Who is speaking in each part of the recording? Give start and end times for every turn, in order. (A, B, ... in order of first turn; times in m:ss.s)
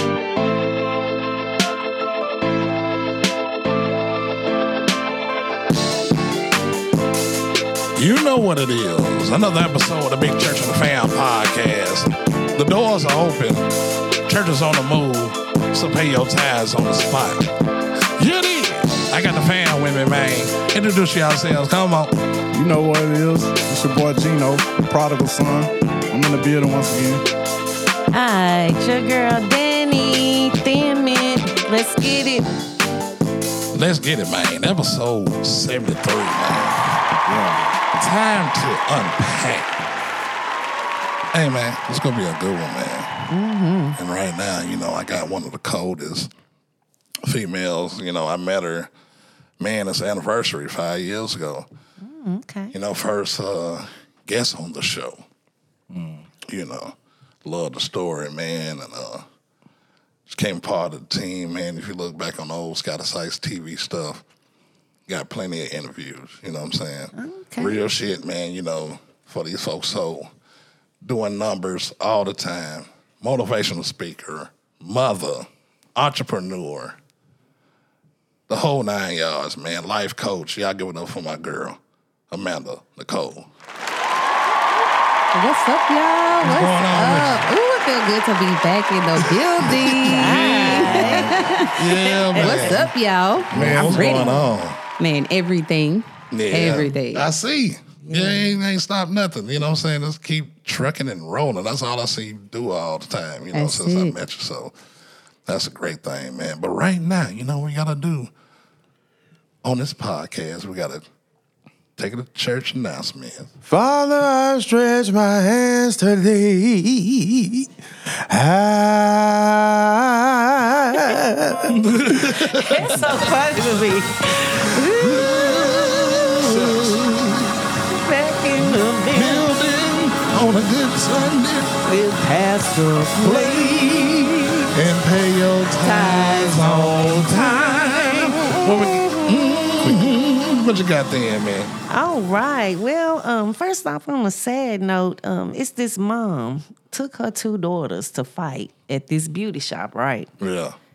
0:08.0-0:13.7 A
0:14.3-0:17.5 A
0:18.2-0:22.2 A
0:22.5-0:27.2 B
0:28.1-0:32.5 C
0:33.7-0:36.8 A
0:37.3-0:37.6 B
0:37.9-0:39.7 A
0:41.3-0:43.3 A
0:43.3-0:44.0 C
0:44.0-0:46.3 A
0:47.3-0:48.9 A
0:49.6-0:51.7 A
0:52.0-0:52.7 C
0:52.7-0:55.2 A
0:55.9-0:56.2 B
0:56.5-0:59.2 A
1:00.3-1:04.2 A
1:05.1-1:10.3 A
1:07.2-1:07.8 C
1:11.0-1:17.0 A
1:18.5-1:21.8 A
1:22.3-1:23.5 A
1:25.3-1:31.8 D
1:26.4-1:27.5 A
1:29.3-1:32.9 A
1:30.0-1:32.9 C
1:32.4-1:34.4 D
1:33.5-1:34.1 B
1:33.5-1:34.8 A
1:35.0-1:37.2 D
1:36.3-1:44.7 A
1:38.0-1:38.5 C
1:43.5-1:44.2 D
1:45.5-1:48.3 A
1:49.6-1:51.0 A
1:52.0-1:53.5 A
1:53.7-2:01.8 E
2:01.7-2:03.2 A
2:02.5-2:07.1 C
2:04.8-2:07.5 A
2:07.8-2:09.5 C
2:09.1-2:11.8 A
2:11.8-2:14.7 C
2:13.1-2:21.7 A
2:15.8-2:20.0 C
2:21.9-2:30.3 C
2:30.4-2:30.8 A